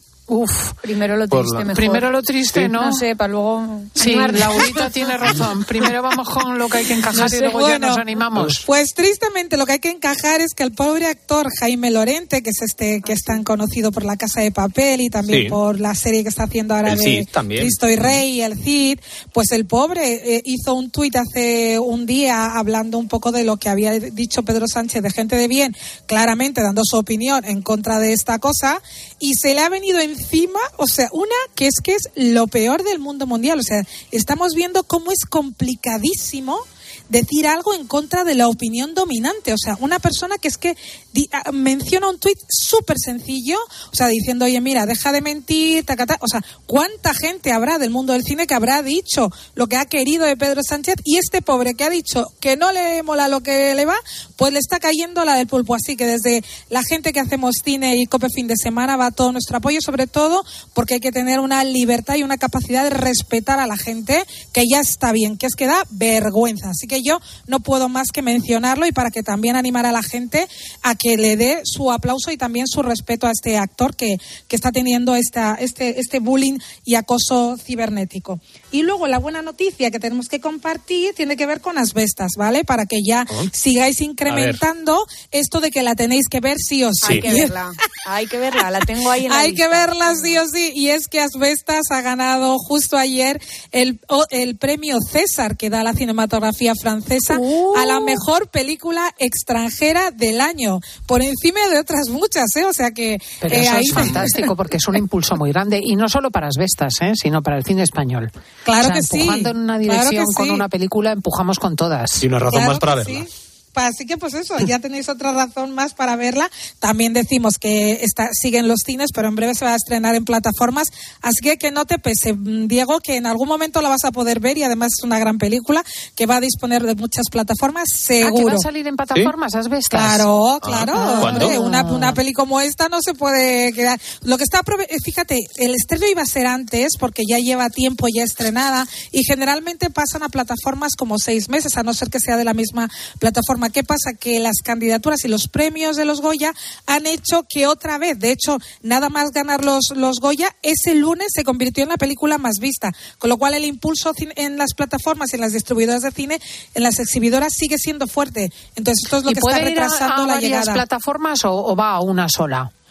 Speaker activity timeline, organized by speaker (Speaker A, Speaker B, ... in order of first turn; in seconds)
Speaker A: 0.3-0.8, 1.7-3.0, 4.0-8.6, 97.3-98.2, 103.4-112.3, 128.2-132.2, 159.2-162.7
Speaker B: 0.8-2.1, 2.7-5.3, 13.0-13.4, 87.0-90.4
Speaker C: 1.3-1.6, 15.3-15.6, 16.8-18.2, 84.3-84.6, 87.0-87.4, 104.0-104.2, 112.2-113.2, 130.6-131.5
Speaker D: 7.2-8.1, 8.6-87.5, 89.2-104.5, 108.6-110.6, 112.5-128.7, 129.9-160.8